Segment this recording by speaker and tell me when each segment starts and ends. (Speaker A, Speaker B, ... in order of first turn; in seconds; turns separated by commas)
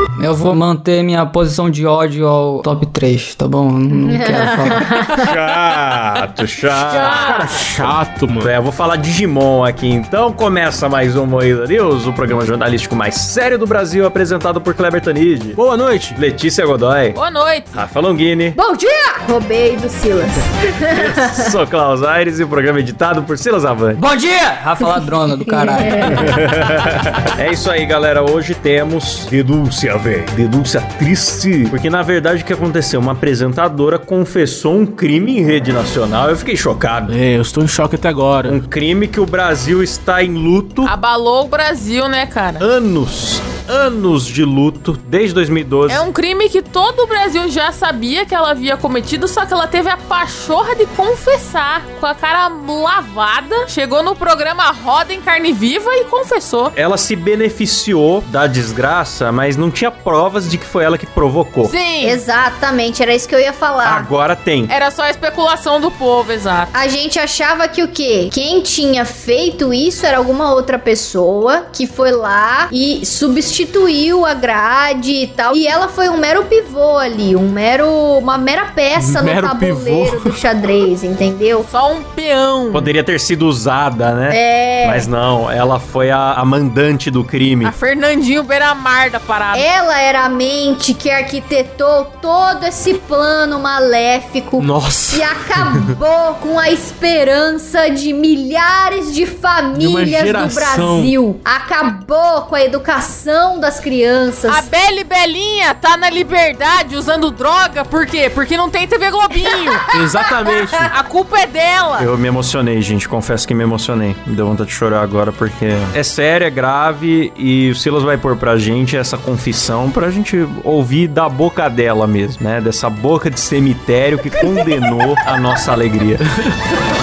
Speaker A: 0.2-4.8, Speaker B: 4.0-5.3, Speaker C: 5.2-15.6, Speaker D: 6.9-7.5, Speaker B: 6.9-7.6, Speaker E: 7.4-8.5, Speaker E: 15.6-16.2, Speaker C: 16.2-17.2, Speaker D: 17.1-17.8, Speaker C: 17.7-18.6, Speaker B: 18.6-21.4, Speaker C: 20.9-25.0, Speaker A: 24.0-26.3, Speaker C: 26.2-37.1, Speaker E: 37.1-38.6, Speaker C: 38.4-40.9, Speaker D: 40.8-42.6, Speaker C: 42.6-46.1, Speaker D: 45.9-56.7, Speaker C: 56.7-61.7, Speaker D: 61.7-62.2, Speaker B: 62.0-64.1, Speaker C: 63.8-64.7, Speaker D: 64.7-66.7, Speaker B: 66.7-81.7, Speaker E: 79.0-80.4, Speaker D: 81.6-82.9, Speaker C: 82.7-87.7, Speaker B: 84.3-85.1, Speaker D: 87.6-89.7, Speaker B: 89.5-104.7, Speaker E: 94.6-95.3, Speaker E: 99.7-101.1, Speaker D: 104.5-109.9, Speaker E: 109.9-110.9, Speaker D: 110.8-112.1, Speaker C: 112.0-126.3